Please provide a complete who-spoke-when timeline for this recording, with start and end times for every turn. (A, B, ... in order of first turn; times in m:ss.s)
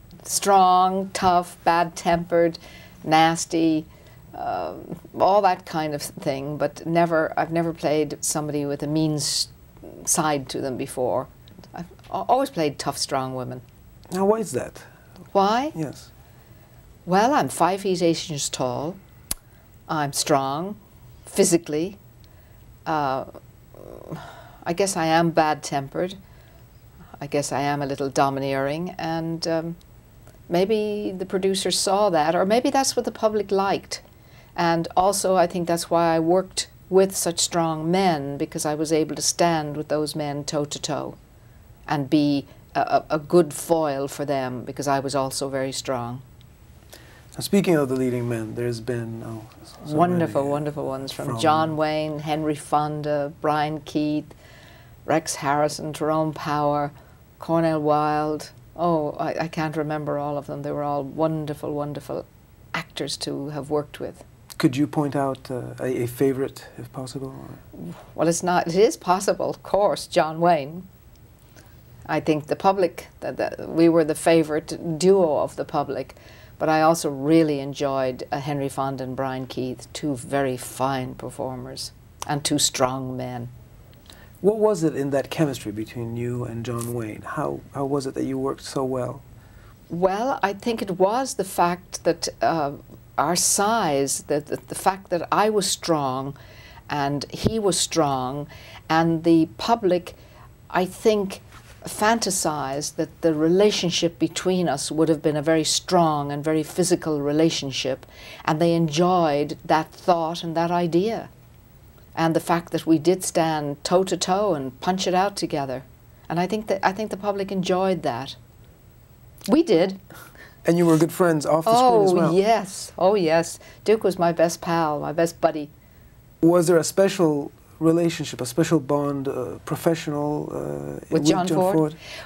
0:00.2-0:13.6 A
0:14.1-0:14.9 B
0:15.3-0:15.8 A
0:15.7-0:16.1 B
0:17.1-0:19.0 A
0:19.9-0:22.0 A
0:22.9-0:26.2 A
0:27.2-0:29.8 A
0:30.5-0:34.0 A
0:34.6-0:41.2 A
0:41.9-0:46.2 A
0:47.3-0:51.7 B
0:49.9-0:54.3 A
0:55.1-1:04.2 A
1:04.6-1:07.6 B
1:07.8-1:10.9 A
1:12.1-1:23.5 A
1:24.4-1:29.2 B
1:29.9-1:36.4 A
1:36.9-1:40.2 A
1:40.7-1:51.3 A
1:52.2-1:58.4 A
1:59.5-2:00.0 A
2:00.6-2:02.4 B
2:01.7-2:05.7 A
2:06.4-2:12.0 B
2:11.1-2:11.8 A